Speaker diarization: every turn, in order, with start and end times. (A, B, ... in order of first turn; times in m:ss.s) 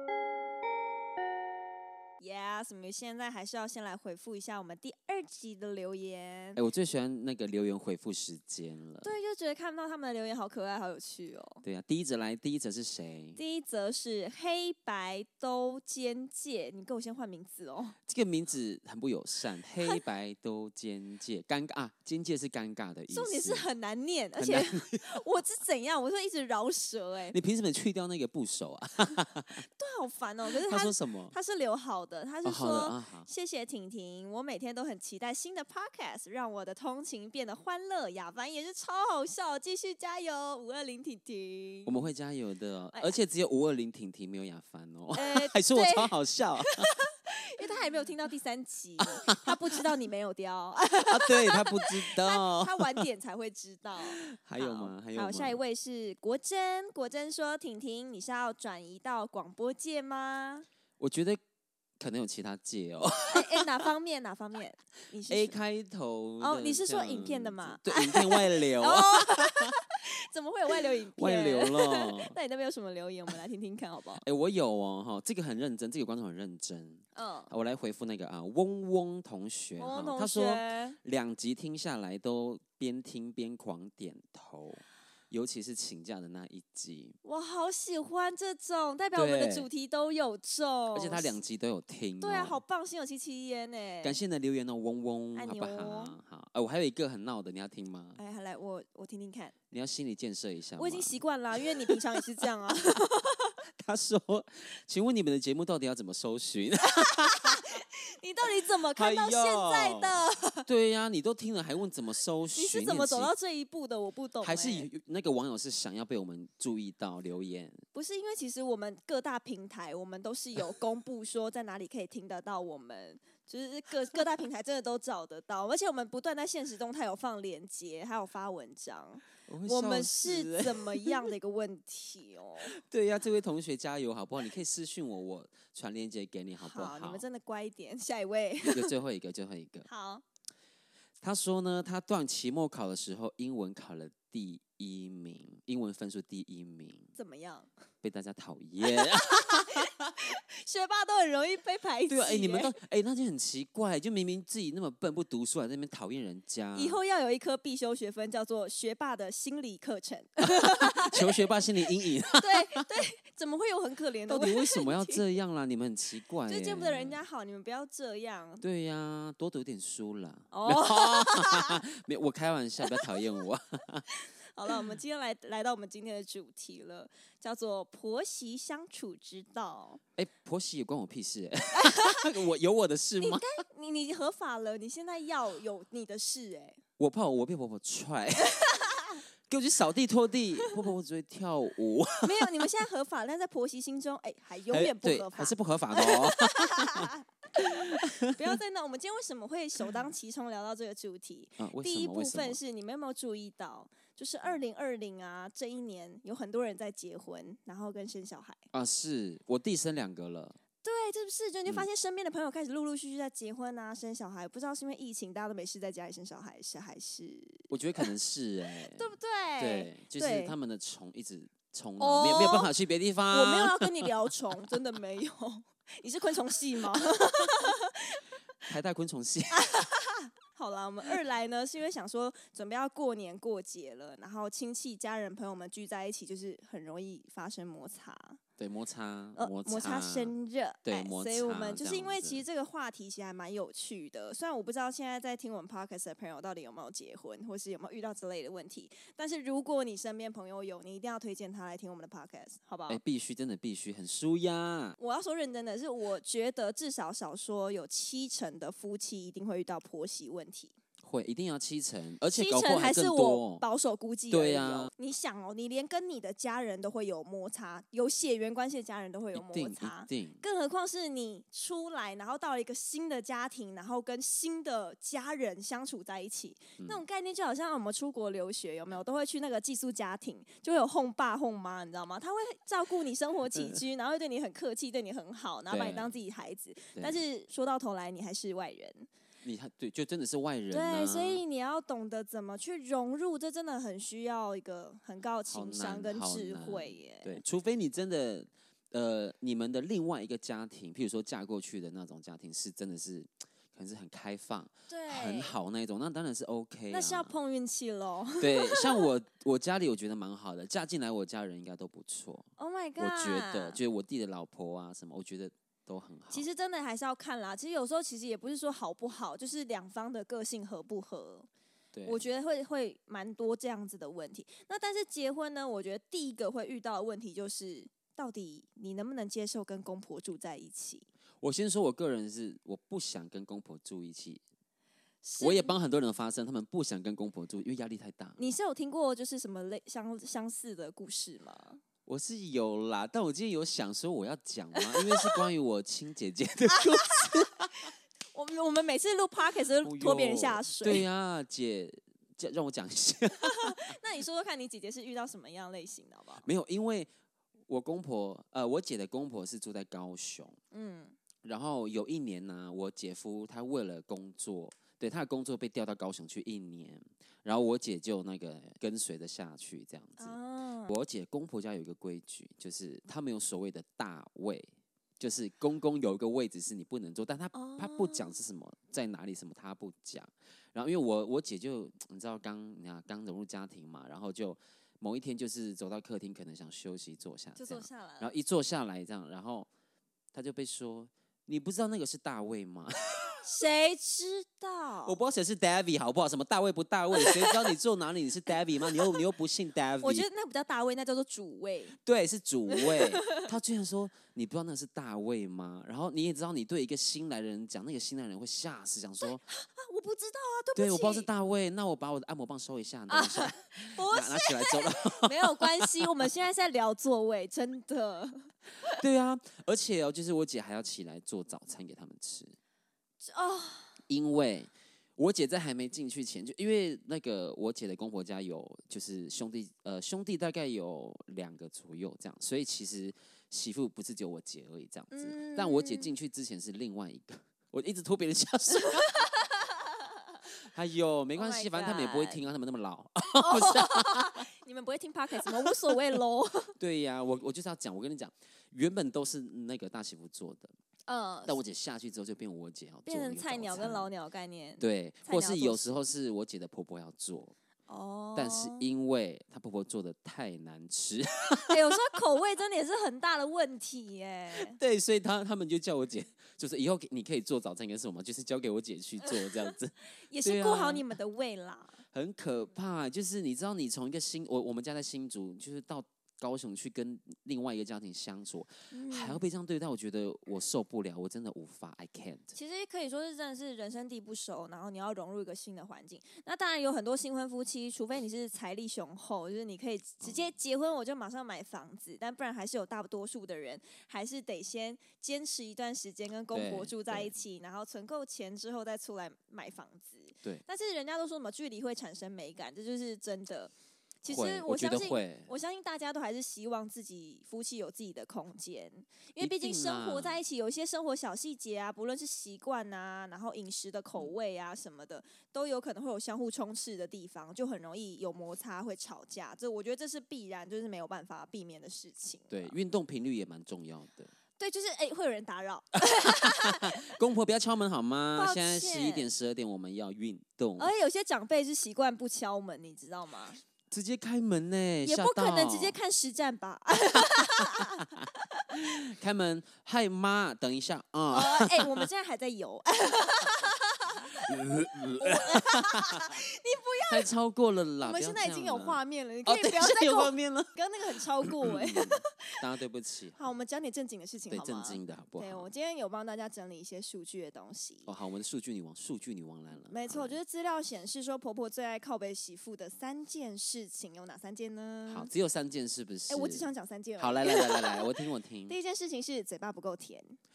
0:02.2-0:06.6 A
0:06.6-0:09.1 B
0:09.0-0:11.6 A
0:11.6-0:13.4 B
0:13.4-0:18.0 A
0:18.0-0:23.7 B
0:23.1-0:27.4 A
0:24.4-0:25.2 B
0:27.3-0:29.6 B
0:29.6-0:42.0 A
0:30.5-0:31.3 B
0:32.4-0:33.3 B
0:41.8-0:46.9 B
0:45.1-0:46.1 A
0:46.7-1:00.6 A
0:49.0-0:49.5 B
0:51.1-0:53.1 B
0:54.1-0:55.6 B
1:01.0-1:01.4 B
1:02.0-1:03.7 B
1:03.3-1:05.6 A
1:05.3-1:09.7 B
1:06.4-1:14.2 A
1:10.8-1:12.4 B
1:14.2-1:27.2 B
1:17.1-1:17.5 A
1:19.8-1:21.0 A
1:27.2-1:31.4 A
1:29.1-1:29.7 B
1:30.9-1:32.6 B
1:32.2-1:34.2 A
1:34.0-1:38.2 B
1:35.3-1:36.2 A
1:38.2-1:39.5 A
1:39.7-1:42.5 B
1:40.8-1:43.6 A
1:43.6-1:47.7 B
1:47.0-1:50.7 A
1:48.9-1:53.3 B
1:52.5-1:54.9 A
1:54.4-1:57.8 B
1:57.9-2:12.7 A
2:09.5-2:11.3 B
2:12.7-2:17.2 B
2:16.6-2:18.9 A
2:18.6-2:19.9 B
2:19.8-2:20.2 A
2:21.2-2:27.1 B
2:27.1-2:27.7 A
2:28.0-2:29.9 B
2:28.8-2:32.7 A
2:32.1-2:37.0 B
2:36.7-2:41.4 A
2:40.4-2:42.8 B
2:42.3-2:45.2 A
2:44.3-2:47.2 B
2:46.5-2:48.6 A
2:48.6-2:54.0 B
2:50.5-2:51.8 A
2:54.1-3:00.0 A
3:00.2-3:03.4 B
3:01.7-3:02.3 A
3:03.2-3:06.8 A
3:07.0-3:08.7 B
3:08.4-3:09.2 A
3:09.5-3:12.6 B
3:12.2-3:28.6 A
3:14.7-3:18.5 B
3:21.6-3:22.6 B
3:28.7-3:30.6 B
3:30.8-3:38.1 A
3:37.7-3:44.1 B
3:38.9-3:40.6 A
3:42.0-3:42.7 A
3:43.3-3:48.2 A
3:48.6-3:49.8 B
3:49.5-3:58.4 A
3:58.6-4:00.3 B
3:59.4-4:13.0 A
4:00.8-4:02.4 B
4:12.9-4:15.0 B
4:15.0-4:20.8 A
4:21.0-4:23.6 B
4:22.3-4:49.1 A
4:24.3-4:24.9 B
4:29.3-4:30.4 B
4:45.7-4:46.1 B
4:49.4-4:51.4 B
4:50.7-4:57.4 A
4:55.5-5:07.3 B
5:04.9-5:05.5 A
5:06.9-5:09.1 A
5:08.4-5:16.5 B
5:12.6-5:13.8 A
5:16.3-5:21.5 A
5:21.9-5:22.3 B
5:22.0-5:31.0 A
5:31.4-5:34.4 B
5:35.2-5:35.7 A
5:35.4-5:38.4 B
5:38.4-5:41.8 A
5:42.0-5:47.7 B
5:44.8-5:45.4 A
5:46.7-5:47.5 A
5:48.3-5:51.0 A
5:49.8-5:54.0 B
5:53.4-5:56.4 A
5:56.4-5:57.1 B
5:57.7-6:00.6 B
6:00.7-6:01.2 A
6:01.4-6:10.4 B
6:10.2-6:11.0 A
6:10.9-6:29.7 B
6:17.5-6:18.3 A
6:27.6-6:28.3 A
6:30.3-6:33.4 B
6:33.4-6:35.2 A
6:35.0-6:40.2 B
6:37.1-6:37.7 A
6:38.9-6:39.2 A
6:40.0-6:42.0 A
6:42.0-6:49.4 B
6:42.7-6:43.5 A
6:49.2-6:51.3 A
6:50.7-6:55.9 B
6:53.1-6:59.0 A
6:58.9-7:02.6 B
7:03.2-7:04.0 A
7:04.1-7:19.1 B
7:15.1-7:16.1 A
7:18.8-7:19.6 A
7:20.6-7:24.4 B
7:21.3-7:22.4 A
7:23.3-7:26.8 A
7:25.6-7:25.9 B
7:26.8-7:30.7 B
7:31.1-7:31.6 A
7:31.4-7:34.1 B
7:33.1-7:35.9 A
7:34.8-7:37.5 B
7:37.9-7:38.8 A
7:38.3-7:41.8 B
7:41.7-7:44.8 A
7:44.5-7:51.0 B
7:49.2-7:52.0 A
7:52.1-8:02.5 B
7:58.9-7:59.4 A
8:02.5-8:42.7 A
8:10.2-8:10.5 B
8:16.5-8:17.3 B
8:24.3-8:25.5 B
8:29.4-8:30.4 B
8:42.5-8:44.3 B
8:44.6-8:47.1 A
8:46.2-8:50.9 B
8:48.3-8:49.3 A
8:50.8-8:53.6 A
8:53.9-8:56.0 B
8:55.0-8:58.6 A
8:58.7-9:02.1 B
9:01.3-9:04.5 A
9:04.3-9:06.4 B
9:05.2-9:07.3 A
9:07.1-9:10.7 B
9:08.0-9:12.6 A
9:11.4-9:13.4 B
9:13.4-9:18.1 A
9:14.5-9:15.7 B
9:18.0-9:20.4 B
9:19.9-9:25.3 A
9:25.1-9:28.7 B
9:26.3-9:28.1 A
9:28.7-9:30.4 A